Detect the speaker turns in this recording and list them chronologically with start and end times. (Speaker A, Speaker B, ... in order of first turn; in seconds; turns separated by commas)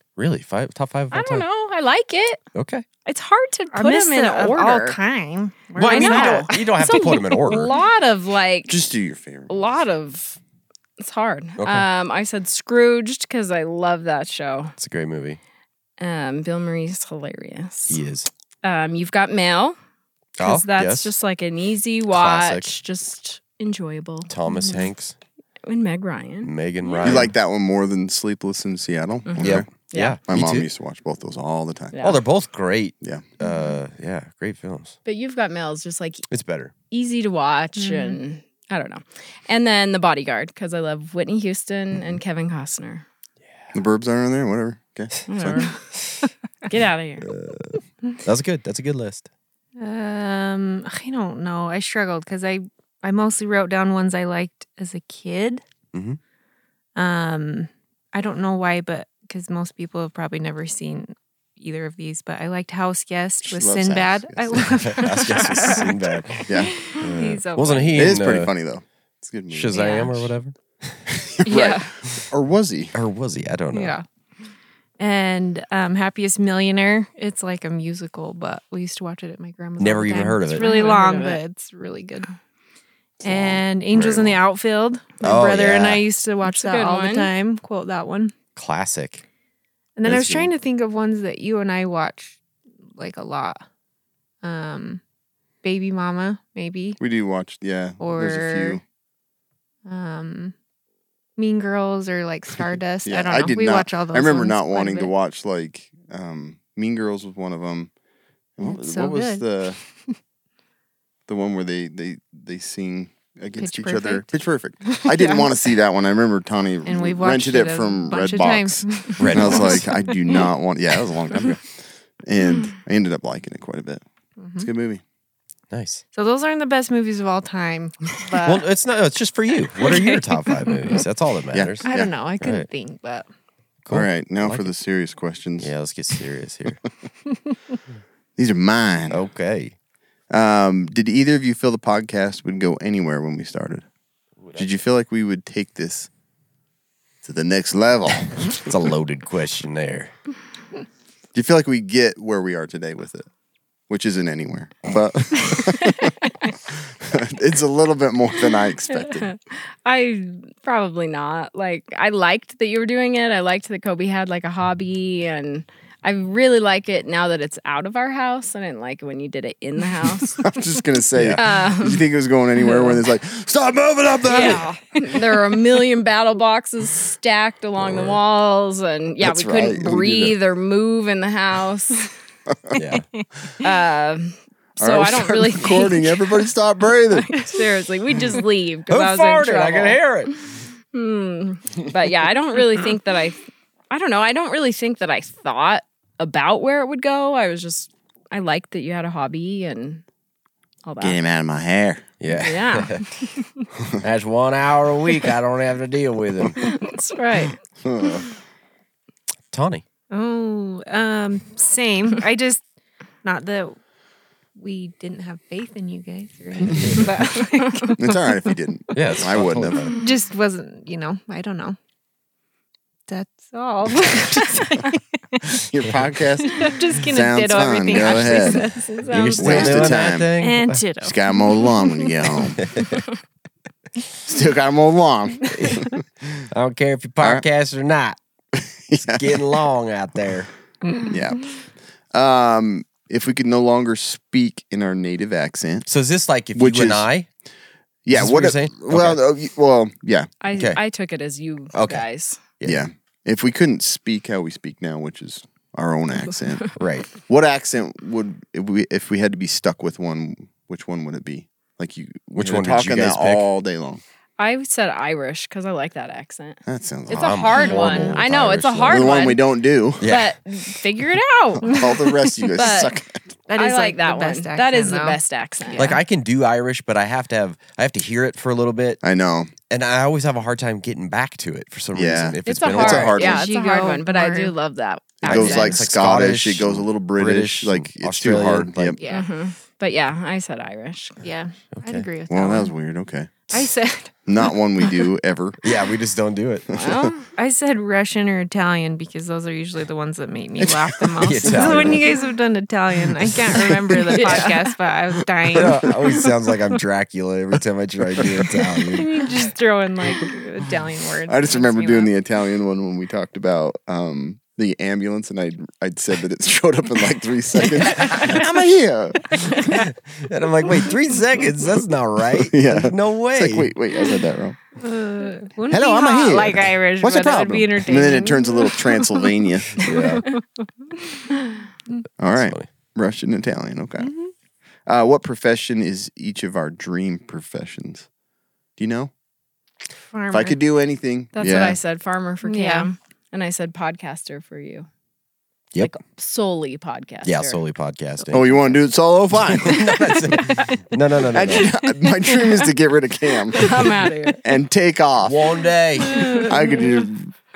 Speaker A: 0.2-1.4, Speaker B: 1.1-2.4, Speaker A: 2.5-2.9, Speaker B: 3.0-5.0, Speaker C: 3.7-7.2, Speaker A: 5.8-7.7, Speaker B: 5.9-8.8, Speaker D: 8.7-9.6, Speaker B: 9.5-10.4, Speaker B: 11.0-14.7, Speaker A: 11.6-11.9, Speaker A: 14.8-15.4, Speaker B: 16.0-18.0, Speaker A: 17.9-18.3, Speaker B: 18.6-19.8, Speaker A: 20.4-21.1, Speaker B: 20.4-24.3, Speaker A: 22.1-22.7, Speaker A: 24.3-25.1, Speaker C: 24.5-24.9, Speaker B: 25.7-27.3, Speaker A: 26.4-27.3, Speaker D: 27.0-29.7, Speaker B: 29.3-30.2, Speaker A: 29.4-30.7, Speaker D: 30.3-31.9, Speaker B: 31.9-32.2, Speaker A: 32.0-35.0, Speaker B: 35.0-36.2, Speaker A: 36.3-36.7, Speaker B: 36.9-43.0, Speaker C: 37.8-38.2, Speaker D: 43.7-45.6, Speaker B: 45.3-45.8, Speaker B: 46.7-47.3, Speaker A: 47.2-49.3, Speaker C: 49.8-55.6, Speaker A: 55.9-56.2, Speaker C: 57.0-68.0, Speaker D: 63.5-64.9, Speaker A: 64.9-68.5, Speaker D: 66.5-66.8, Speaker D: 67.9-70.0, Speaker A: 69.5-71.0, Speaker C: 69.7-70.1, Speaker D: 71.1-73.0, Speaker B: 71.5-71.9, Speaker A: 72.9-74.0, Speaker C: 73.7-74.0, Speaker C: 75.0-82.3, Speaker A: 79.8-80.7, Speaker B: 80.5-81.4, Speaker C: 83.2-88.3, Speaker D: 83.3-83.6, Speaker A: 83.9-84.3, Speaker A: 85.2-86.0, Speaker B: 86.4-87.3, Speaker A: 88.6-89.2, Speaker C: 90.0-92.4, Speaker D: 90.1-90.5, Speaker C: 93.0-93.6, Speaker C: 94.4-95.0, Speaker C: 95.6-97.0, Speaker D: 97.0-98.8, Speaker C: 98.0-98.8, Speaker C: 99.9-100.5, Speaker C: 101.4-105.1, Speaker D: 103.0-107.9, Speaker D: 108.6-109.8, Speaker C: 108.6-109.5, Speaker D: 111.3-124.0, Speaker C: 113.6-114.3, Speaker C: 114.8-115.5, Speaker C: 116.8-120.2, Speaker A: 119.2-119.9, Speaker C: 124.4-124.7, Speaker D: 124.6-125.0, Speaker A: 125.7-126.0, Speaker C: 126.1-128.7, Speaker A: 128.4-131.9, Speaker C: 129.8-130.2, Speaker D: 131.5-132.1, Speaker C: 131.8-133.3, Speaker A: 132.4-132.7, Speaker A: 133.8-134.7, Speaker D: 133.9-135.7, Speaker A: 135.6-136.8, Speaker D: 138.4-139.2, Speaker A: 139.1-139.8, Speaker D: 140.3-143.9, Speaker A: 144.4-144.7, Speaker D: 144.6-146.1, Speaker D: 147.2-148.6, Speaker A: 148.6-150.1, Speaker D: 151.3-153.3, Speaker D: 153.9-156.1, Speaker D: 157.0-159.3, Speaker B: 158.9-170.5, Speaker D: 170.4-174.7, Speaker A: 171.2-171.4, Speaker B: 171.4-172.1, Speaker B: 174.3-182.1, Speaker A: 177.8-178.2, Speaker D: 179.2-180.4, Speaker D: 182.5-182.8, Speaker A: 182.8-183.0, Speaker C: 182.9-183.2, Speaker B: 183.6-186.4, Speaker D: 184.8-187.4, Speaker B: 187.1-190.3, Speaker A: 188.9-190.3, Speaker B: 190.9-193.4, Speaker B: 193.9-200.0, Speaker B: 200.8-201.2, Speaker D: 201.0-202.2, Speaker A: 202.2-203.1, Speaker B: 202.3-203.3, Speaker A: 204.0-206.7, Speaker B: 206.6-207.6, Speaker D: 207.8-208.3, Speaker A: 209.5-209.8, Speaker C: 210.1-212.6, Speaker C: 213.2-213.8, Speaker C: 214.6-218.1, Speaker D: 216.7-217.0, Speaker D: 218.0-219.9, Speaker A: 218.9-219.9, Speaker C: 220.0-221.8, Speaker C: 223.1-225.6, Speaker D: 225.5-228.6, Speaker C: 226.4-229.0, Speaker B: 227.9-230.1, Speaker A: 229.1-230.8, Speaker D: 229.4-230.3, Speaker C: 230.4-232.1, Speaker D: 231.0-232.6, Speaker A: 232.6-232.9, Speaker D: 234.3-236.0, Speaker A: 235.6-238.2, Speaker D: 238.6-239.6, Speaker A: 239.0-240.5, Speaker D: 241.1-241.4, Speaker D: 242.1-245.9, Speaker A: 245.9-247.3, Speaker D: 246.6-247.1, Speaker D: 248.1-250.3, Speaker A: 248.1-249.2, Speaker B: 250.4-252.4, Speaker A: 250.6-250.8, Speaker A: 251.7-252.1, Speaker D: 252.7-264.0, Speaker A: 256.8-257.1, Speaker A: 262.4-263.5, Speaker B: 264.4-269.4, Speaker D: 266.7-268.2, Speaker A: 267.1-269.2, Speaker C: 267.6-268.0, Speaker D: 268.8-270.0, Speaker A: 270.0-270.4, Speaker B: 270.0-272.9, Speaker D: 271.6-273.3, Speaker C: 273.5-276.0, Speaker B: 273.6-275.9, Speaker A: 275.8-279.0, Speaker D: 279.0-279.5, Speaker A: 279.7-283.2, Speaker D: 281.9-283.5, Speaker B: 282.5-285.8, Speaker C: 283.2-284.5, Speaker D: 285.2-289.0, Speaker A: 285.2-289.0, Speaker C: 289.0-289.3, Speaker B: 289.1-291.2, Speaker C: 291.2-292.7, Speaker A: 291.7-292.1, Speaker D: 292.3-293.4, Speaker C: 293.5-294.1, Speaker D: 294.3-295.6, Speaker A: 295.6-296.7, Speaker D: 296.7-297.1, Speaker B: 296.7-297.3, Speaker C: 297.4-306.0, Speaker A: 301.2-302.1, Speaker D: 301.6-302.0, Speaker B: 304.1-304.7, Speaker A: 305.5-309.1, Speaker D: 308.2-308.5, Speaker C: 308.9-312.1, Speaker D: 311.3-319.7, Speaker A: 317.9-318.3, Speaker A: 319.7-323.7, Speaker D: 322.3-324.6, Speaker C: 324.8-328.9, Speaker D: 325.7-329.8, Speaker A: 329.8-330.2, Speaker C: 329.9-330.4, Speaker D: 332.2-334.1, Speaker A: 332.4-332.7, Speaker C: 334.0-334.3, Speaker D: 334.9-338.1, Speaker D: 338.8-339.1, Speaker C: 340.1-340.6, Speaker D: 340.3-341.8, Speaker B: 341.4-344.9, Speaker C: 342.4-342.9, Speaker B: 345.9-347.6, Speaker A: 347.2-348.6, Speaker D: 348.3-349.9, Speaker A: 349.5-351.7, Speaker D: 351.3-355.5, Speaker B: 353.5-354.4, Speaker A: 355.2-356.5, Speaker B: 356.1-356.8, Speaker D: 356.3-357.3